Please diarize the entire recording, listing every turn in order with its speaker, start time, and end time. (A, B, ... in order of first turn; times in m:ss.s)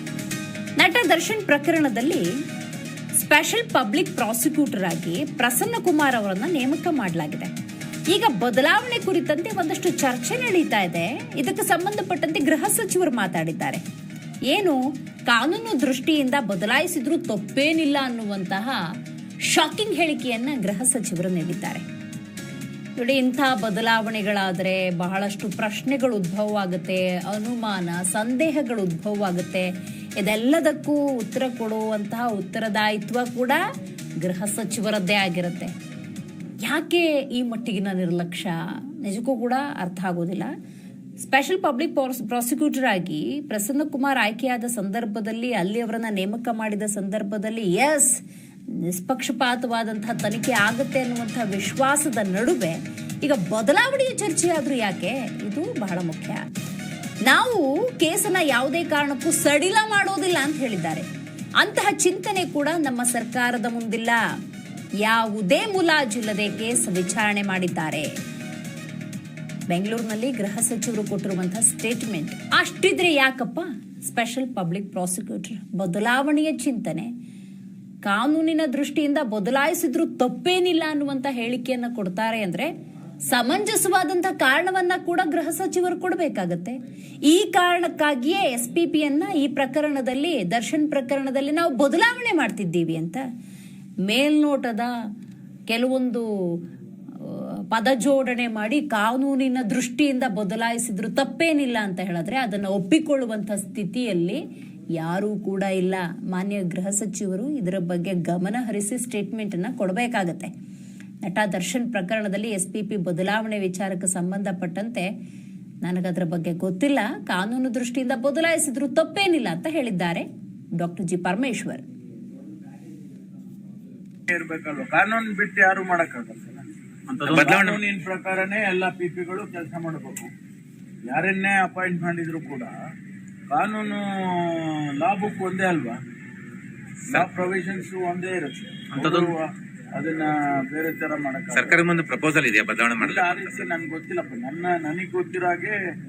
0:00.8-0:02.2 A
0:03.2-0:07.5 A
0:08.1-0:13.8 A
0:14.5-0:18.8 A
0:19.4-0:21.8 A
0:23.0-0:33.6 A
0:34.2-0:35.7 A
0:36.6-0:40.5 A
0:41.2-0:48.2 A
0:48.7-0:56.4 A
0:57.3-1:01.1 A
1:01.6-1:04.2 A
1:05.0-1:08.1 A
1:09.7-1:17.1 A
1:18.0-1:22.7 A
1:23.3-1:33.2 A
1:34.1-1:34.9 A
1:35.7-1:36.6 A
1:37.2-1:44.4 A
1:45.0-1:50.5 A
1:51.2-1:55.1 A
1:55.8-2:00.3 A
2:00.8-2:01.8 A
2:04.3-2:10.3 B
2:07.2-2:07.8 C
2:11.1-2:12.7 B
2:13.5-2:16.0 B
2:17.1-2:22.0 B
2:19.0-2:19.3 C
2:21.5-2:23.7 C
2:23.0-2:25.8 B